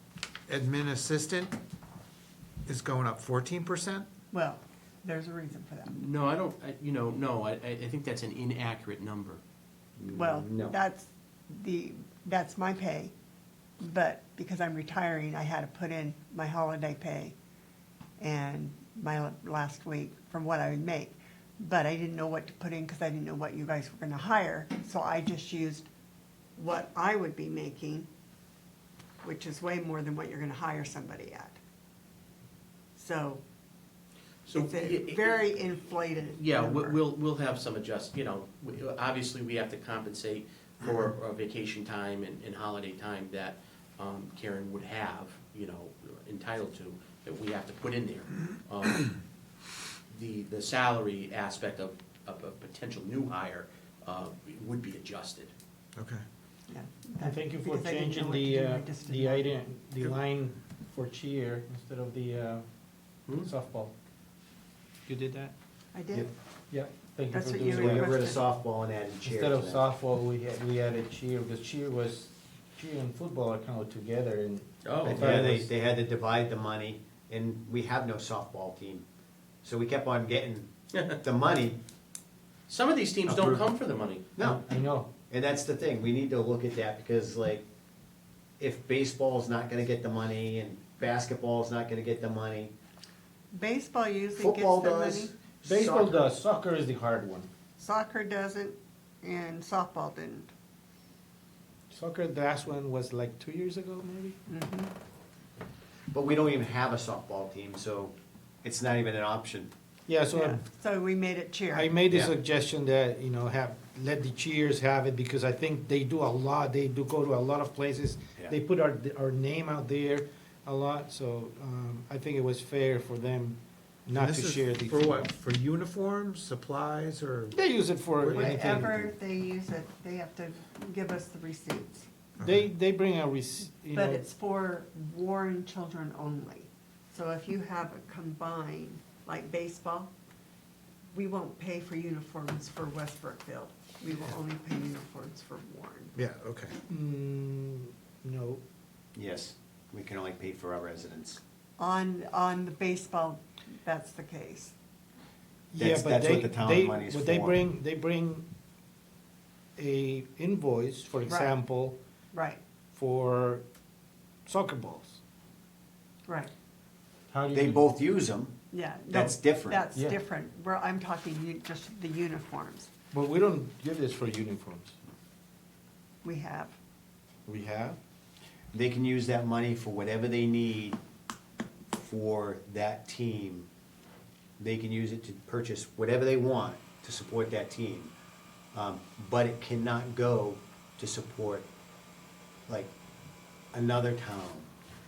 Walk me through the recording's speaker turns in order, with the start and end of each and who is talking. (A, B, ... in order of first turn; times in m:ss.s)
0:00.5-0:01.6 A
0:02.6-0:04.1 A
0:04.3-0:06.0 B
0:05.9-0:09.4 C
0:10.0-0:10.8 D
0:10.1-0:13.1 B
0:13.8-0:17.3 B
0:18.2-0:25.9 B
0:26.6-0:28.1 B
0:29.2-0:31.6 B
0:32.9-0:33.4 B
0:34.4-0:35.4 C
0:34.5-0:37.0 B
0:36.3-0:49.2 C
0:50.1-0:55.5 C
0:56.0-0:56.2 A
0:56.7-0:59.5 B
0:57.2-1:02.6 E
1:03.4-1:03.9 E
1:05.1-1:05.5 E
1:05.9-1:06.3 B
1:06.2-1:08.1 E
1:07.3-1:08.4 B
1:07.7-1:09.8 D
1:09.2-1:15.7 E
1:14.8-1:15.3 C
1:15.0-1:19.0 D
1:19.6-1:21.8 D
1:22.7-1:24.2 C
1:23.2-1:23.6 D
1:24.4-1:24.6 D
1:24.4-1:25.1 E
1:25.3-1:27.6 D
1:28.6-1:32.7 D
1:33.5-1:35.3 B
1:34.3-1:36.2 D
1:35.6-1:37.5 E
1:37.8-1:40.5 B
1:41.9-1:44.4 E
1:44.5-1:44.9 B
1:46.1-1:49.7 D
1:50.1-1:50.6 E
1:50.3-1:51.9 B
1:51.7-2:05.3 E
1:52.1-1:52.3 D
2:04.1-2:07.6 A
2:07.5-2:09.1 E
2:08.2-2:08.9 A
2:08.3-2:12.1 B
2:12.4-2:14.2 E
2:13.9-2:20.1 B
2:21.1-2:26.1 B
2:26.1-2:26.8 A
2:26.9-2:28.6 E
2:29.1-2:31.4 D
2:31.8-2:34.7 B
2:35.7-2:38.4 E
2:35.8-2:37.6 D
2:39.8-2:42.0 E
2:41.2-2:41.5 B
2:42.3-2:42.6 B
2:42.9-2:43.6 E
2:44.4-2:45.2 E
2:46.2-2:46.5 B
2:47.3-2:47.8 E
2:47.5-2:48.5 D
2:48.7-2:52.9 B
2:49.1-2:49.8 D
2:53.1-2:54.9 E
2:56.2-2:56.8 B
2:57.4-2:58.0 E
2:58.7-3:01.0 D
3:01.9-3:03.7 D
3:04.6-3:08.1 D
3:08.7-3:11.7 D
3:13.7-3:14.7 D